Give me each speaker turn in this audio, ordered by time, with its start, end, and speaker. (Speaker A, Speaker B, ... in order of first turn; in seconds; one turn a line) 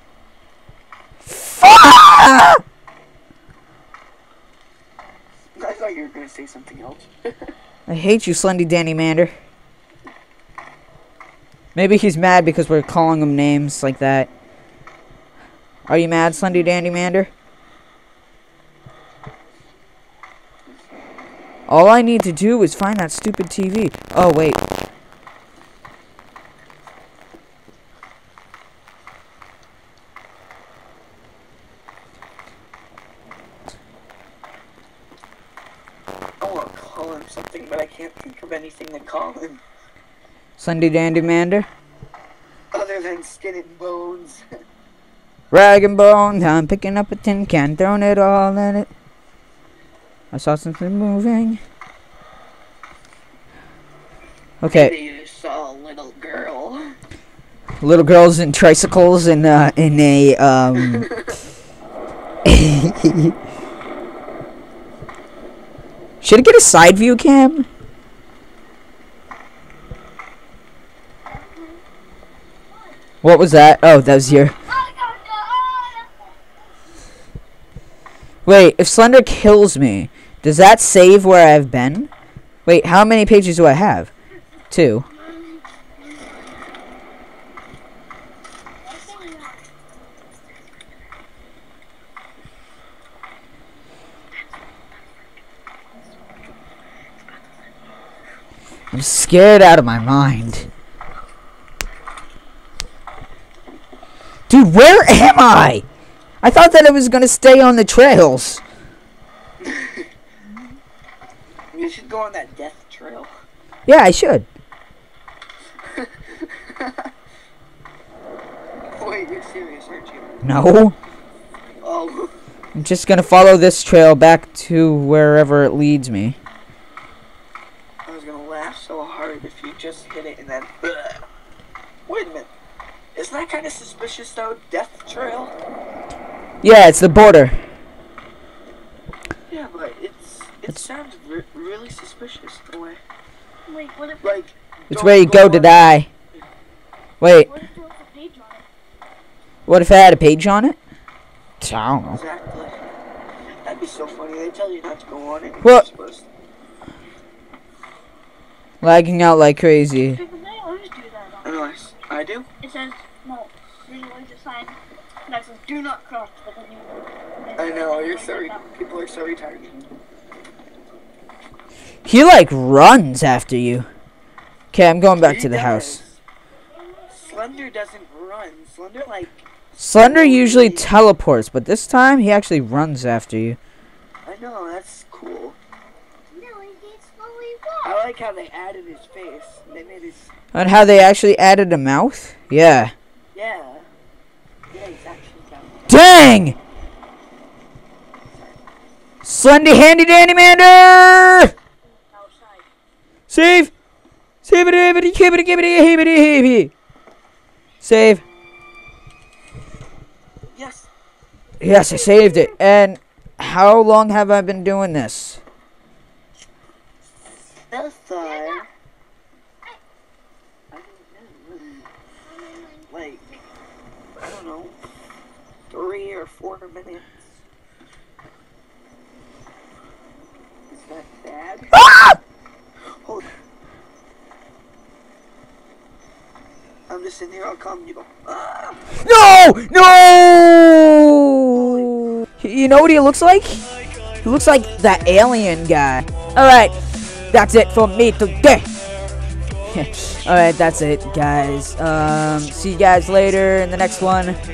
Speaker A: 1.3-2.6
Speaker B: 5.5-7.5
Speaker A: 7.9-9.3
Speaker A: 11.8-14.3
Speaker A: 15.9-17.3
Speaker A: 21.7-24.6
Speaker B: 36.4-39.6
Speaker A: 40.6-41.7
Speaker B: 42.7-44.4
Speaker A: 45.5-48.9
Speaker A: 50.3-51.6
Speaker A: 54.6-55.0
Speaker B: 54.7-57.0
Speaker A: 57.8-61.1
Speaker B: 60.8-61.4
Speaker A: 62.5-63.4
Speaker A: 66.2-67.7
Speaker A: 73.2-74.5
Speaker C: 74.7-76.3
Speaker A: 78.5-82.1
Speaker A: 82.7-84.1
Speaker A: 84.7-85.1
Speaker C: 85.2-85.6
Speaker C: 88.8-89.6
Speaker A: 98.9-100.7
Speaker A: 104.5-105.8
Speaker A: 106.4-108.6
Speaker B: 109.6-110.1
Speaker B: 111.7-113.3
Speaker A: 113.9-114.5
Speaker B: 115.9-117.1
Speaker B: 119.0-120.4
Speaker A: 120.4-121.0
Speaker B: 121.8-122.3
Speaker A: 122.8-126.4
Speaker B: 128.1-131.2
Speaker B: 132.1-132.5
Speaker B: 133.2-135.5
Speaker A: 136.6-137.6
Speaker B: 139.5-143.0
Speaker C: 143.7-144.3
Speaker B: 144.2-145.9
Speaker A: 144.9-146.1
Speaker A: 147.2-147.6
Speaker C: 147.3-148.7
Speaker A: 149.7-150.8
Speaker A: 151.6-152.2
Speaker B: 152.1-152.8
Speaker B: 153.7-156.3
Speaker A: 158.8-160.2
Speaker C: 160.1-161.6
Speaker B: 161.4-162.5
Speaker C: 162.6-168.6
Speaker B: 167.6-169.8
Speaker A: 172.1-173.9
Speaker A: 174.7-176.0
Speaker B: 175.2-176.2
Speaker B: 177.1-180.9
Speaker A: 179.8-183.6
Speaker B: 184.2-185.6
Speaker C: 186.3-187.9
Speaker B: 187.8-190.3
Speaker A: 190.5-192.9
Speaker B: 193.3-193.9
Speaker B: 194.7-195.8
Speaker A: 195.9-196.6
Speaker A: 199.2-201.5
Speaker C: 202.0-202.6
Speaker A: 203.3-203.7
Speaker A: 204.4-206.7
Speaker A: 207.8-208.2
Speaker B: 210.5-210.9
Speaker A: 211.6-215.4
Speaker C: 212.1-212.4
Speaker B: 217.7-218.7
Speaker B: 220.7-221.9
Speaker C: 222.3-222.9
Speaker B: 222.9-223.3
Speaker B: 224.2-224.8
Speaker B: 225.7-227.1
Speaker B: 230.7-231.8
Speaker A: 231.7-232.2
Speaker B: 236.9-238.9
Speaker A: 239.0-243.6
Speaker A: 244.2-246.7
Speaker A: 247.3-248.7
Speaker A: 249.7-254.4